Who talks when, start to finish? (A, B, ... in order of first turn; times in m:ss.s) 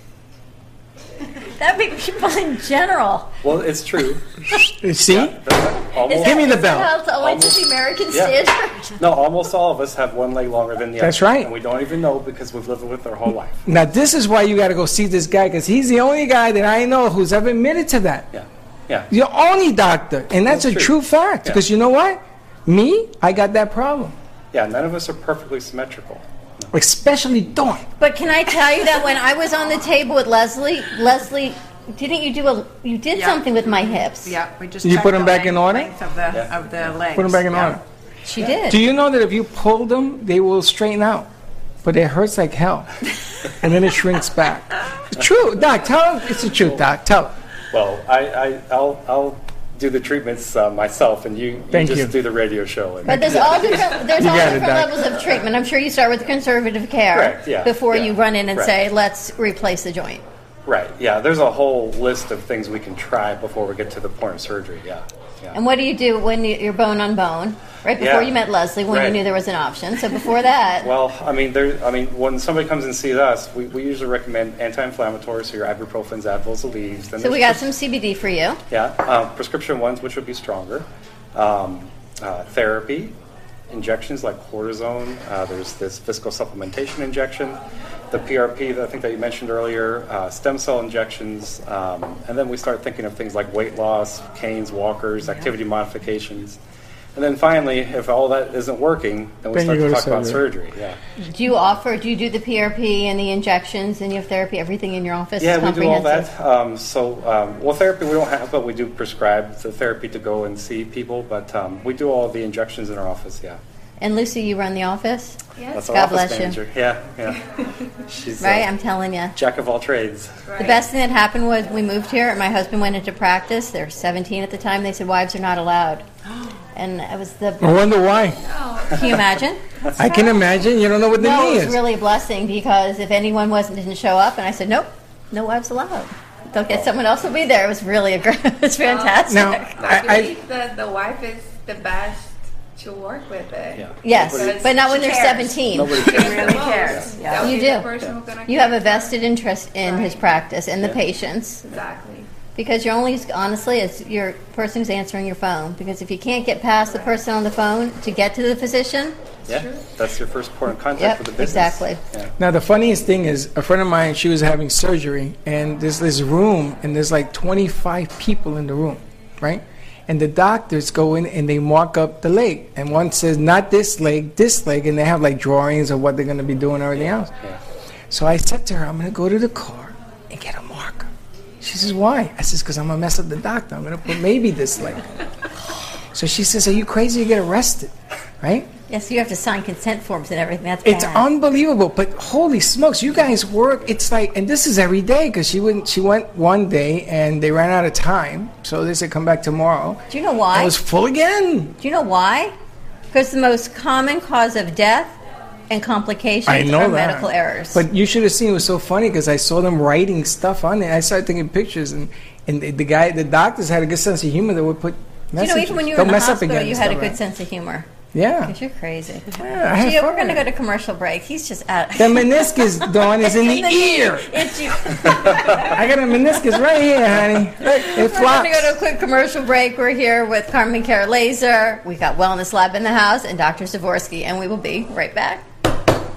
0:01.6-0:03.3 A
0:03.4-0:04.2 B
0:04.8-0:05.4 C
0:05.0-0:06.6 B
0:06.0-0:09.0 A
0:06.2-0:06.9 C
0:07.2-0:08.4 B
0:09.0-0:13.6 B
0:11.0-0:11.5 C
0:13.6-0:18.3 C
0:18.3-0:19.1 B
0:19.1-0:24.1 C
0:20.5-0:21.6 B
0:24.5-0:26.7 B
0:26.7-0:27.8 C
0:28.0-0:34.4 A
0:33.1-0:37.8 D
0:34.8-0:35.9 C
0:37.1-0:37.8 C
0:38.2-0:38.8 A
0:38.7-0:41.3 C
0:41.8-0:42.9 C
0:43.4-0:47.3 C
0:47.7-0:54.2 B
0:51.7-0:52.1 C
0:53.0-1:00.2 A
0:53.1-0:53.4 C
0:54.1-0:55.0 C
0:57.1-0:58.7 B
1:00.6-1:05.6 B
1:05.5-1:10.9 A
1:08.0-1:08.4 B
1:08.9-1:09.2 B
1:10.8-1:17.6 B
1:17.2-1:18.6 A
1:18.7-1:23.1 B
1:23.7-1:27.6 B
1:28.1-1:36.6 B
1:37.1-1:41.0 B
1:39.5-1:40.4 C
1:41.2-1:46.3 A
1:45.4-1:53.6 B
1:54.0-1:56.6 A
1:55.6-1:55.9 E
1:55.7-1:57.4 B
1:58.0-1:58.7 B
1:58.4-1:59.3 A
1:59.3-2:00.5 B
2:00.5-2:00.8 E
2:00.6-2:06.0 A
2:06.7-2:07.8 A
2:07.6-2:08.4 C
2:08.4-2:09.2 E
2:08.9-2:09.6 A
2:10.0-2:11.8 C
2:10.0-2:10.4 E
2:11.2-2:19.7 A
2:18.8-2:19.2 E
2:19.3-2:20.3 C
2:19.8-2:24.9 E
2:23.7-2:24.6 B
2:24.0-2:26.4 A
2:24.8-2:27.6 D
2:25.7-2:27.1 B
2:26.0-2:29.2 E
2:27.3-2:27.9 A
2:28.4-2:31.6 A
2:29.8-2:30.4 E
2:31.6-2:32.3 E
2:32.6-2:39.2 A
2:39.4-2:42.3 B
2:39.5-2:39.8 E
2:41.0-2:42.0 A
2:42.4-2:57.3 C
2:56.9-2:57.6 B
2:58.1-3:01.1 C
3:01.6-3:05.0 C
3:06.1-3:08.7 C
3:08.9-3:11.3 A
3:10.8-3:20.0 C
3:20.1-3:20.7 A
3:20.5-3:21.8 C
3:21.8-3:22.5 A
3:23.1-3:25.1 A
3:25.7-3:27.8 A
3:26.5-3:37.2 C
3:35.4-3:37.9 A
3:38.1-3:38.5 C
3:38.4-3:45.8 A
3:39.4-3:40.4 C
3:42.0-3:48.7 C
3:47.6-3:55.4 A